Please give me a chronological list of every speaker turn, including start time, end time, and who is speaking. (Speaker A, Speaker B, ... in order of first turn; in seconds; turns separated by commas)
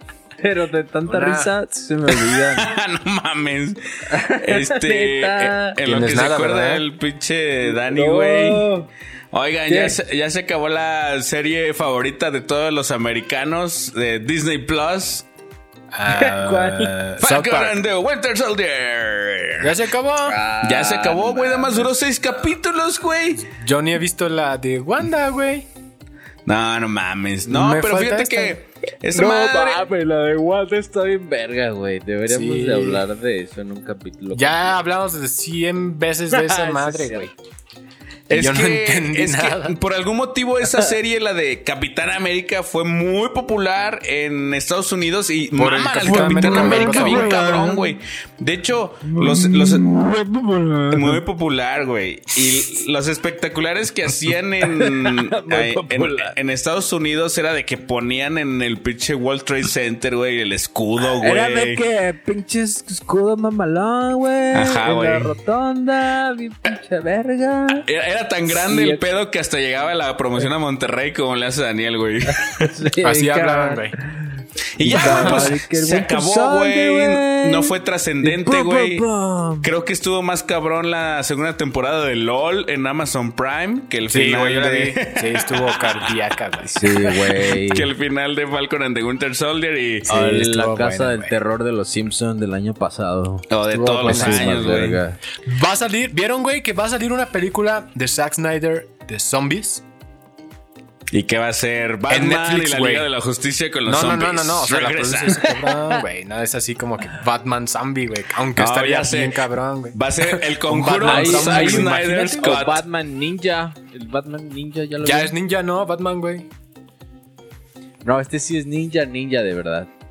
Speaker A: 0.4-2.7, Speaker B: 1.1-1.5, Speaker C: 2.1-8.7, Speaker A: 4.1-5.8, Speaker B: 5.8-6.8, Speaker A: 7.6-8.9, Speaker C: 9.3-15.2, Speaker A: 9.7-10.0, Speaker B: 15.9-17.8, Speaker A: 16.1-17.0, Speaker C: 17.2-19.8, Speaker B: 19.6-20.4, Speaker A: 20.2-22.0, Speaker C: 20.6-23.4, Speaker B: 23.4-25.7, Speaker C: 26.4-29.8, Speaker B: 27.4-28.6, Speaker A: 29.1-34.6, Speaker B: 32.3-33.0, Speaker B: 34.3-37.3, Speaker A: 36.3-37.3, Speaker C: 38.3-49.9, Speaker B: 38.3-39.8, Speaker B: 45.5-47.3, Speaker A: 46.0-48.0, Speaker A: 49.0-51.2, Speaker C: 50.9-61.8, Speaker A: 54.6-56.3, Speaker A: 61.2-67.8, Speaker C: 64.5-65.3, Speaker C: 67.9-72.7, Speaker A: 68.5-69.0, Speaker A: 72.2-79.7, Speaker B: 73.0-73.9, Speaker C: 74.8-79.1, Speaker B: 74.8-75.5, Speaker C: 79.6-86.1, Speaker B: 84.1-86.8, Speaker A: 86.7-87.9, Speaker C: 86.8-90.1, Speaker B: 90.1-91.3, Speaker A: 90.1-95.2, Speaker C: 93.5-95.0, Speaker B: 93.7-94.8, Speaker B: 95.4-99.8, Speaker C: 101.1-105.5, Speaker B: 102.1-103.1, Speaker B: 103.8-112.5, Speaker C: 108.5-112.8, Speaker A: 111.0-115.3, Speaker B: 115.0-116.5, Speaker A: 118.0-119.9